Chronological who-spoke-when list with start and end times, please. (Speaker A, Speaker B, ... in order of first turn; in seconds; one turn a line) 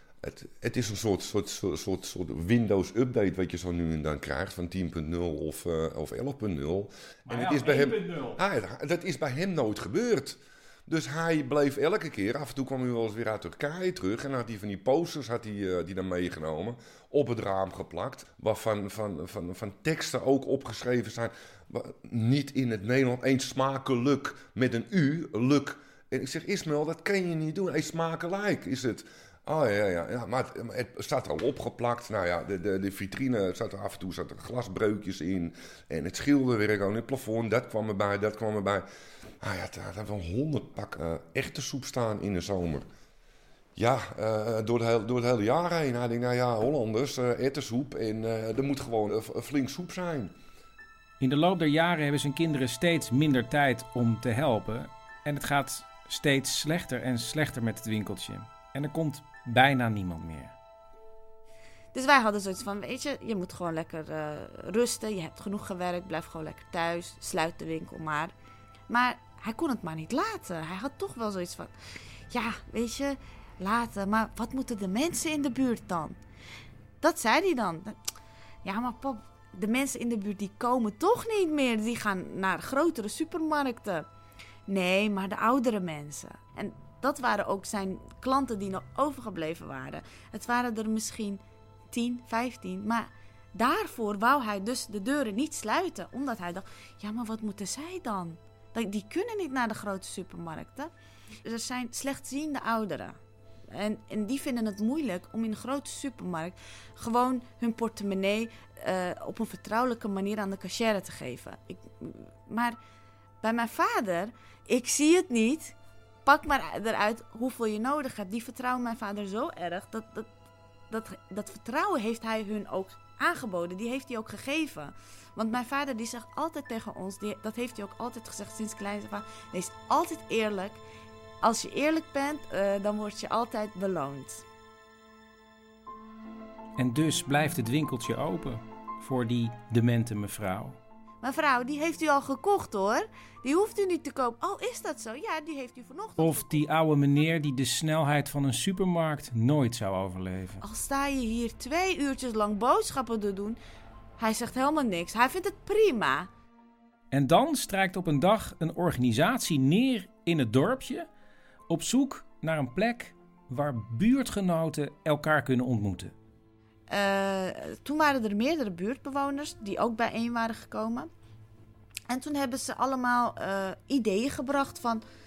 Speaker A: 0.2-38.9
Speaker B: 7.3-8.4
Speaker A: 39.4-42.9
Speaker A: 43.8-50.3
Speaker B: 51.2-60.5
Speaker C: 61.9-68.3
Speaker C: 68.9-71.7
Speaker C: 72.3-76.2
Speaker C: 77.0-78.0
Speaker C: 78.6-84.0
Speaker C: 84.7-91.4
Speaker C: 91.9-100.9
Speaker C: 101.4-103.2
Speaker C: 103.7-112.8
Speaker C: 113.4-120.3
Speaker C: 120.9-130.8
Speaker C: 131.4-134.4
Speaker B: 136.8-140.8
Speaker C: 141.2-146.5
Speaker B: 146.2-150.6
Speaker C: 150.6-153.6
Speaker C: 154.2-156.3
Speaker B: 157.1-161.1
Speaker B: 161.7-166.1
Speaker C: 166.9-171.1
Speaker C: 172.1-175.0